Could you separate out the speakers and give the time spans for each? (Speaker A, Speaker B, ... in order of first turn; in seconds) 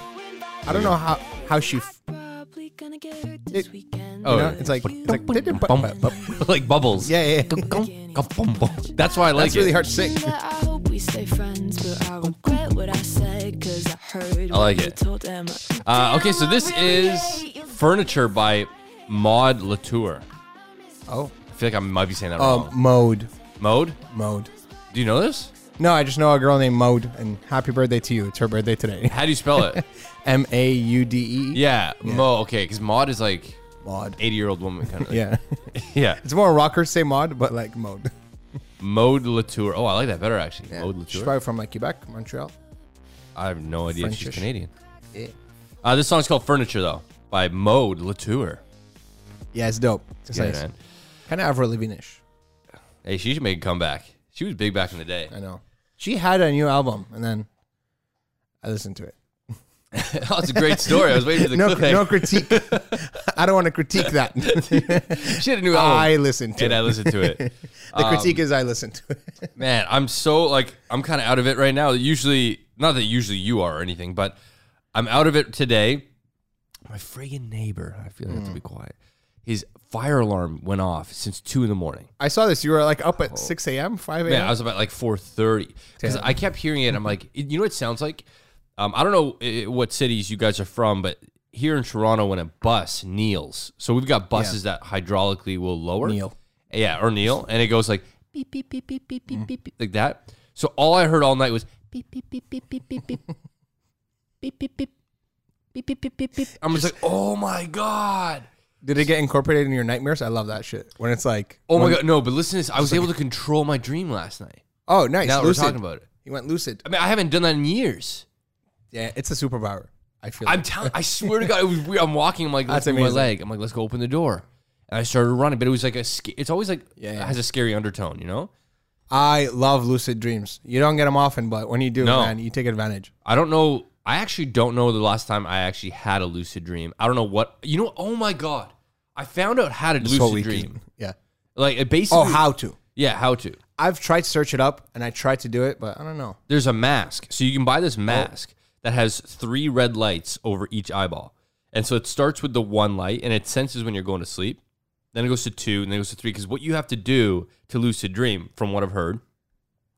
Speaker A: 0.2-17.8
Speaker B: 0.6-1.9, 4.2-6.1, 7.0-7.7, 9.3-10.3, 21.1-21.3, 22.4-23.3, 24.1-24.5, 25.8-32.3, 33.8-34.2, 34.9-38.1, 40.7-42.5, 43.9-44.5, 49.5-50.6, 51.3-52.2, 55.3-57.5, 58.6-59.2, 60.5-69.5, 78.3-78.6, 82.2-84.5, 86.0-86.3, 94.3-94.6, 96.0-96.3, 106.7-107.0, 108.8-112.0, 112.8-113.1, 114.9-116.8, 118.9-121.5, 122.7-123.3, 127.0-127.3, 129.1-133.1, 140.0-141.2, 142.1-142.8, 143.8-146.4
Speaker C: 0.7-1.0, 4.2-9.8, 14.5-14.9, 15.8-20.2, 21.5-22.7, 23.6-24.0, 24.9-25.5, 29.0-29.8, 31.5-33.6, 34.2-36.2, 38.8-41.3, 43.3-44.7, 45.8-48.6, 50.3-50.8, 53.0-55.3, 59.9-63.1, 64.0-68.4, 69.6-74.4, 74.9-76.1, 76.9-82.1, 84.3-88.2, 88.8-96.2, 96.7-103.2, 104.4-104.9, 105.7-108.5, 111.7-114.6, 115.2-116.1, 116.8-118.2, 120.4-128.5, 132.0-132.3, 133.2-140.8, 141.6-143.6, 146.5-154.6, 155.1-159.2